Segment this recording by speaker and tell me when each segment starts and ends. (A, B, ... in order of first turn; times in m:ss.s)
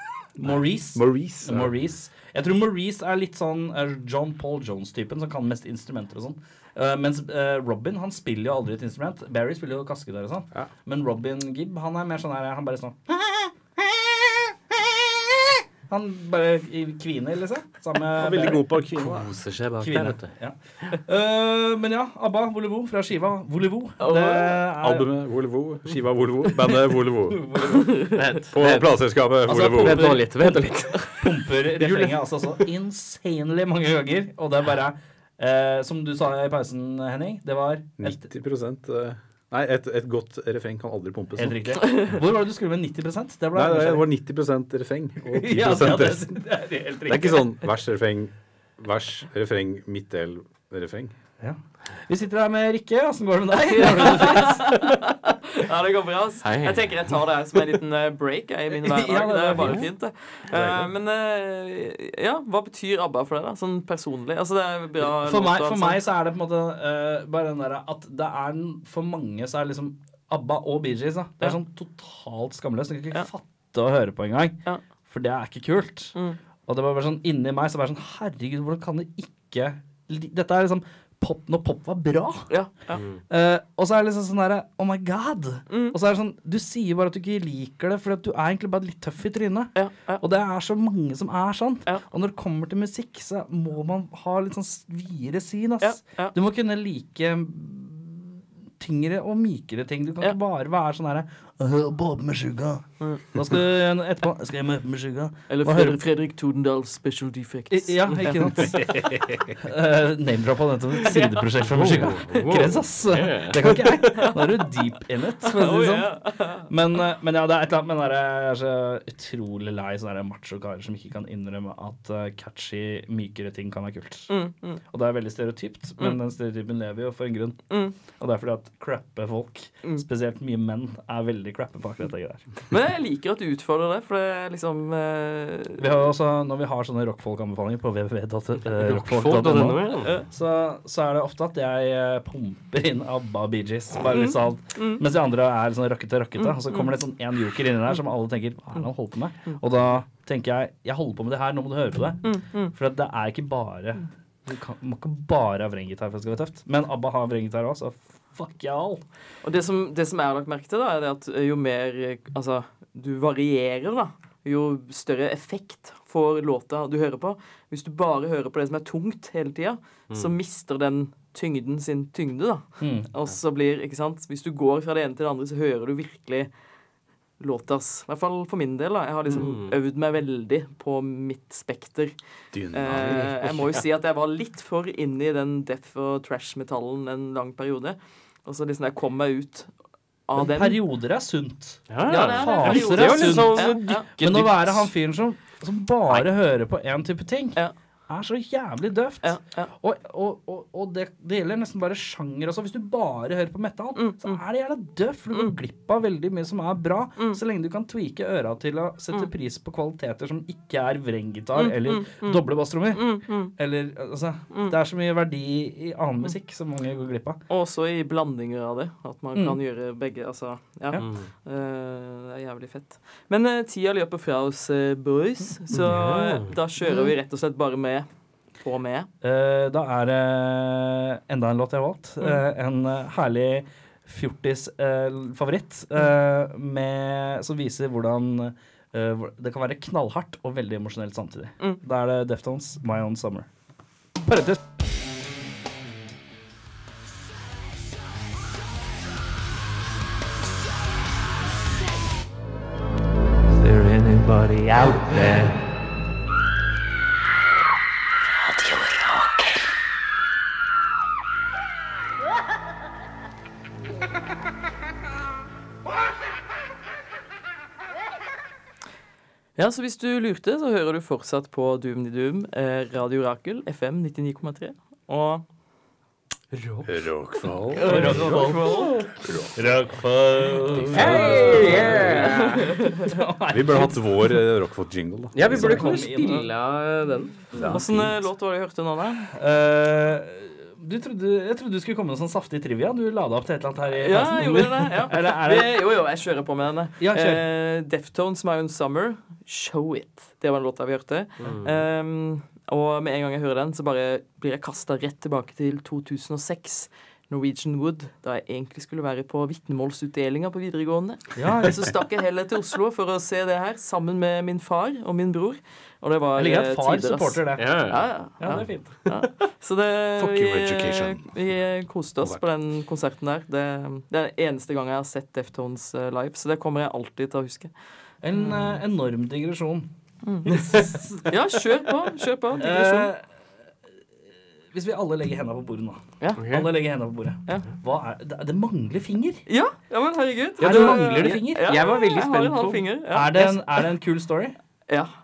0:00.4-0:18.8 A
0:00.4-0:01.7 B
0:18.2-0:19.4 B
0:19.6-0:20.1 C
0:19.8-0:25.1 A
0:24.0-0:24.6 D
0:24.7-0:27.5 B
0:27.3-0:28.1 A
0:27.7-0:28.3 D
0:28.1-0:31.2 C
0:28.5-0:30.2 B
0:29.4-0:38.3 A
0:38.0-0:42.0 B
0:41.4-0:44.1 A
0:41.8-0:42.1 D
0:43.5-0:46.4 B
0:45.2-0:47.5 A
0:47.0-0:51.1 B
0:51.4-0:54.8 A
0:53.7-1:06.0 D
0:56.4-0:57.2 C
0:58.8-0:59.9 A
0:59.6-0:59.8 C
1:00.5-1:00.9 B
1:05.0-1:16.1 A
1:16.6-1:22.5 A
1:22.5-1:23.0 D
1:23.3-1:46.0 A
1:25.7-1:26.0 D
1:29.7-1:30.2 D
1:35.8-1:36.3 D
1:45.5-1:48.7 D
1:47.7-2:04.3 A
1:51.0-1:51.4 D
1:51.6-1:53.9 C
1:54.1-1:54.7 D
1:55.4-1:56.7 D
2:04.3-2:04.8 D
2:04.9-2:12.4 A
2:07.7-2:08.0 D
2:12.7-2:15.9 D
2:15.8-2:39.0 A
2:18.7-2:20.1 C
2:24.1-2:25.0 D
2:26.4-2:26.9 D
2:32.2-2:32.7 D
2:39.4-2:56.5 D
2:52.8-2:53.1 A
2:57.4-3:02.1 D
2:59.3-2:59.8 C
3:02.5-3:03.6 B
3:02.7-3:09.7 D
3:10.3-3:10.8 D
3:10.4-3:37.4 A
3:11.9-3:14.9 C
3:12.0-3:14.1 D
3:19.2-3:19.7 D
3:24.0-3:24.4 D
3:31.6-3:33.5 D
3:37.5-3:48.1 D
3:39.3-3:39.6 A
3:41.0-3:41.3 C
3:45.7-3:46.5 C
3:48.6-3:49.1 D
3:49.2-4:03.5 A
4:04.2-4:04.6 A
4:13.5-4:15.6 E
4:29.6-4:35.4 D
4:36.5-4:36.9 C
4:36.8-4:38.6 B
4:37.7-4:39.1 D
4:37.8-4:38.9 A
4:39.2-4:39.6 B
4:39.6-4:44.0 A
4:40.8-4:42.4 B
4:40.9-4:42.7 C
4:42.1-4:43.1 D
4:43.5-4:46.0 B
4:45.3-4:47.7 C
4:45.5-4:46.5 A
4:47.5-4:48.1 B
4:47.6-4:49.3 D
4:49.2-4:55.8 A
4:54.0-5:27.7 D
4:57.0-4:57.4 A
5:01.4-5:01.7 C
5:11.4-5:12.0 A
5:16.4-5:18.8 A
5:17.6-5:19.3 C
5:20.2-5:21.2 B
5:28.2-5:29.9 A
5:28.4-5:28.7 D
5:30.2-5:33.1 D
5:30.4-5:31.3 A
5:32.6-5:33.2 A
5:34.7-5:39.4 A
5:36.4-5:36.7 C
5:39.5-5:43.9 D
5:40.6-5:41.7 A
5:40.6-5:42.8 C
5:43.1-5:44.5 A